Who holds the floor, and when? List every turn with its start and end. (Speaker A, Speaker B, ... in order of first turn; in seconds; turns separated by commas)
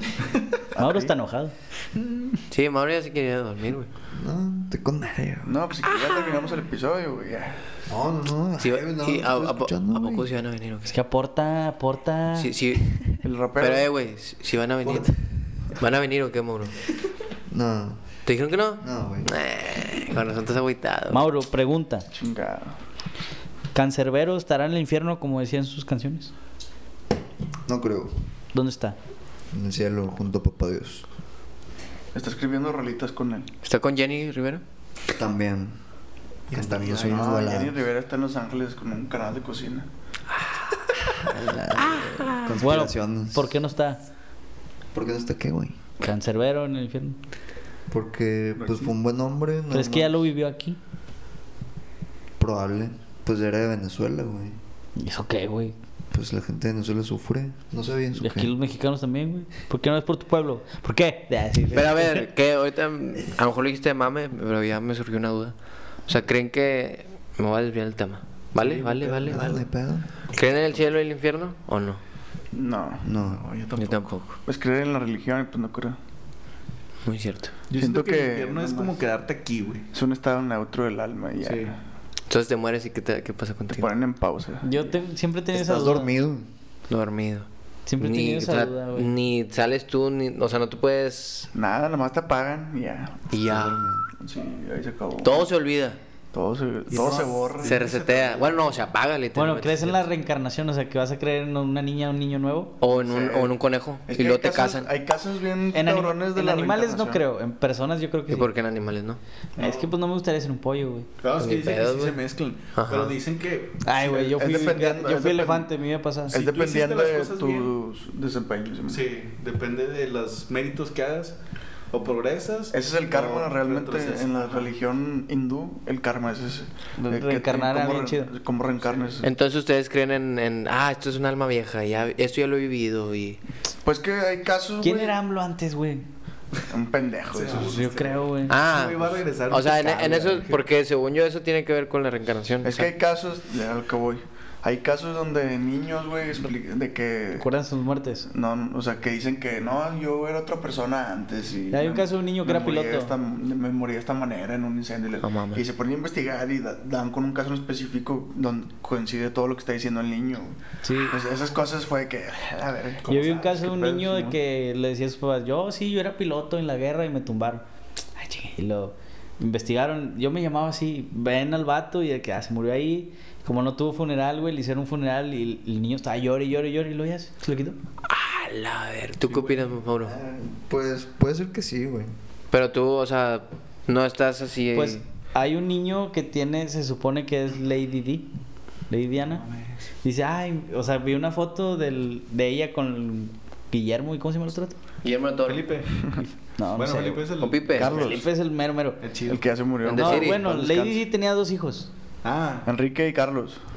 Speaker A: 0.7-1.1, Speaker B: 0.8-1.5, Speaker C: 2.5-3.9, Speaker D: 4.1-5.5, Speaker A: 5.4-7.6, Speaker C: 5.9-6.5, Speaker D: 7.9-10.3, Speaker C: 8.6-10.9, Speaker B: 10.9-12.5, Speaker C: 12.3-12.9, Speaker A: 13.2-13.9, Speaker C: 13.6-16.8, Speaker D: 17.5-18.0, Speaker C: 18.2-21.2, Speaker D: 18.8-19.3, Speaker B: 21.1-22.1, Speaker A: 22.1-22.8, Speaker B: 23.7-26.3, Speaker D: 27.6-28.1, Speaker B: 28.5-28.9, Speaker D: 29.5-31.0, Speaker A: 32.1-33.5, Speaker C: 33.6-34.6, Speaker D: 35.1-35.7, Speaker E: 36.5-37.4, Speaker D: 36.5-37.8, Speaker A: 37.0-39.9, Speaker D: 41.2-43.5, Speaker C: 41.8-42.5, Speaker B: 42.6-44.0, Speaker D: 44.9-45.8, Speaker B: 46.0-47.2, Speaker D: 47.9-50.2, Speaker E: 48.5-48.9, Speaker B: 49.7-50.8, Speaker D: 52.4-54.5, Speaker B: 55.0-55.7, Speaker D: 56.1-58.5, Speaker B: 58.2-62.2, Speaker C: 61.7-65.5, Speaker C: 66.1-69.6, Speaker E: 68.5-69.6, Speaker D: 69.3-70.1, Speaker C: 70.3-72.0, Speaker A: 72.5-73.1, Speaker D: 73.0-73.4, Speaker E: 73.2-74.1, Speaker C: 73.8-74.3, Speaker A: 74.5-76.0, Speaker C: 77.0-77.5, Speaker E: 77.7-79.8, Speaker A: 77.8-79.0, Speaker A: 79.9-81.8, Speaker E: 81.4-81.8, Speaker C: 82.3-83.9, Speaker A: 83.7-84.8, Speaker B: 84.6-86.1, Speaker D: 85.5-86.5, Speaker C: 86.9-87.5, Speaker B: 87.9-89.1, Speaker C: 88.0-91.5, Speaker A: 91.5-93.3, Speaker C: 93.3-93.8, Speaker D: 93.4-94.0, Speaker A: 94.2-95.5, Speaker C: 95.2-96.0, Speaker A: 96.3-98.7, Speaker B: 96.9-97.2, Speaker E: 97.0-97.9, Speaker C: 97.6-100.0, Speaker B: 99.3-102.7, Speaker C: 102.8-104.9, Speaker A: 102.9-103.5, Speaker A: 104.1-107.2, Speaker B: 105.7-108.5, Speaker C: 108.3-109.2, Speaker E: 109.6-109.9, Speaker B: 109.6-111.1, Speaker E: 111.2-113.8, Speaker C: 111.4-112.2, Speaker C: 112.7-113.1, Speaker B: 113.8-116.4, Speaker A: 114.0-115.7, Speaker A: 116.3-119.0, Speaker E: 116.3-117.7, Speaker E: 118.9-121.3, Speaker E: 121.9-124.8, Speaker A: 122.7-129.3, Speaker B: 127.0-128.3, Speaker E: 128.8-129.2, Speaker C: 129.2-133.4, Speaker A: 133.8-135.2, Speaker B: 134.8-136.0, Speaker A: 136.7-137.9, Speaker E: 137.3-140.7, Speaker B: 137.5-138.6, Speaker C: 138.5-142.9, Speaker A: 142.6-147.4, Speaker B: 147.3-148.3, Speaker A: 148.3-164.4, Speaker B: 151.7-153.1, Speaker C: 155.2-155.6, Speaker B: 160.8-161.2, Speaker B: 163.1-167.6, Speaker B: 168.2-177.8, Speaker C: 178.1-180.1, Speaker E: 179.2-179.7, Speaker D: 180.0-182.1, Speaker C: 182.5-185.0, Speaker B: 184.7-188.3, Speaker B: 188.9-189.4, Speaker E: 189.3-189.9, Speaker B: 190.0-194.8, Speaker C: 195.0-195.7, Speaker E: 195.4-196.1, Speaker B: 196.2-197.3, Speaker E: 196.7-198.2, Speaker C: 197.4-198.1, Speaker A: 197.8-198.2, Speaker B: 197.8-199.0, Speaker E: 199.0-199.4, Speaker A: 199.3-201.0, Speaker C: 199.8-200.4, Speaker B: 199.9-201.9, Speaker E: 202.2-202.7, Speaker A: 202.7-203.6